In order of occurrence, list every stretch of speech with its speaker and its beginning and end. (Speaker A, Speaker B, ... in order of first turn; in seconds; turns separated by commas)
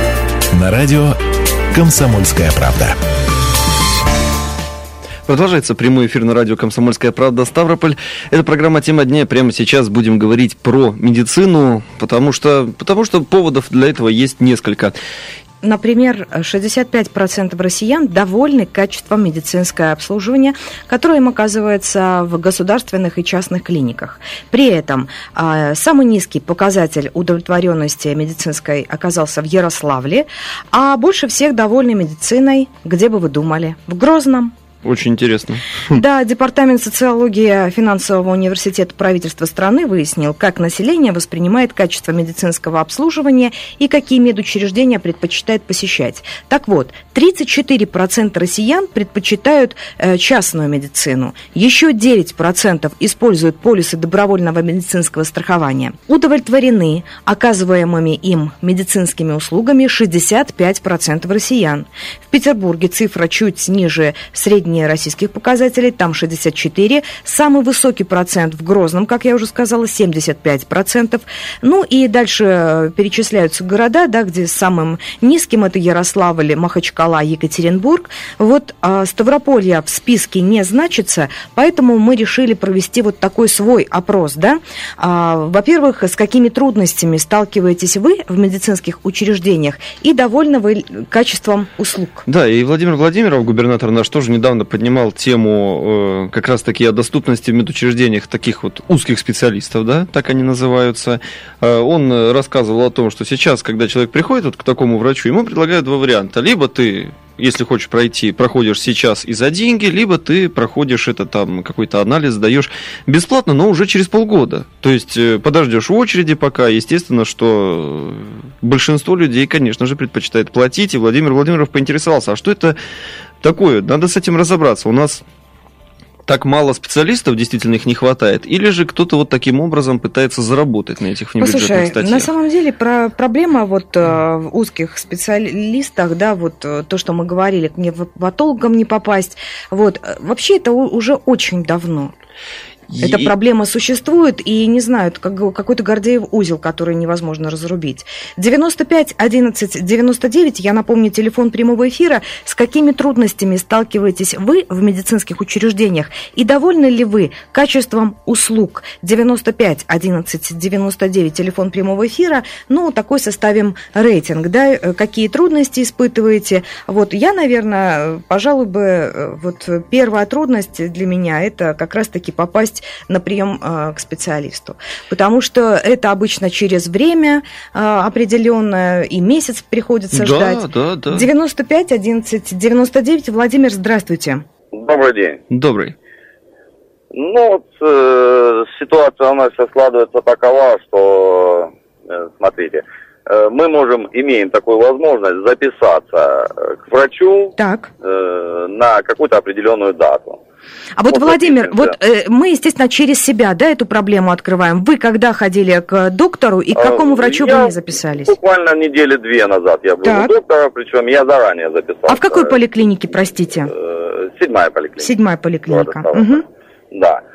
Speaker A: 0.5-1.2, Speaker A: 1.7-3.0, Speaker B: 5.3-14.9, Speaker C: 15.6-34.5, Speaker B: 34.8-36.0, Speaker C: 35.9-92.2, Speaker B: 92.3-122.8, Speaker B: 123.4-125.2, Speaker B: 126.3-132.3, Speaker C: 131.4-142.1, Speaker B: 142.9-143.3, Speaker C: 143.0-184.4, Speaker B: 180.1-181.3, Speaker D: 184.7-185.4, Speaker B: 185.5-185.9, Speaker D: 187.1-200.4, Speaker C: 197.6-197.9, Speaker C: 201.0-208.3, Speaker D: 201.1-201.9, Speaker D: 206.7-212.5, Speaker C: 210.0-210.3, Speaker C: 212.1-213.7, Speaker D: 213.7-215.1, Speaker C: 215.0-216.4, Speaker D: 215.7-217.2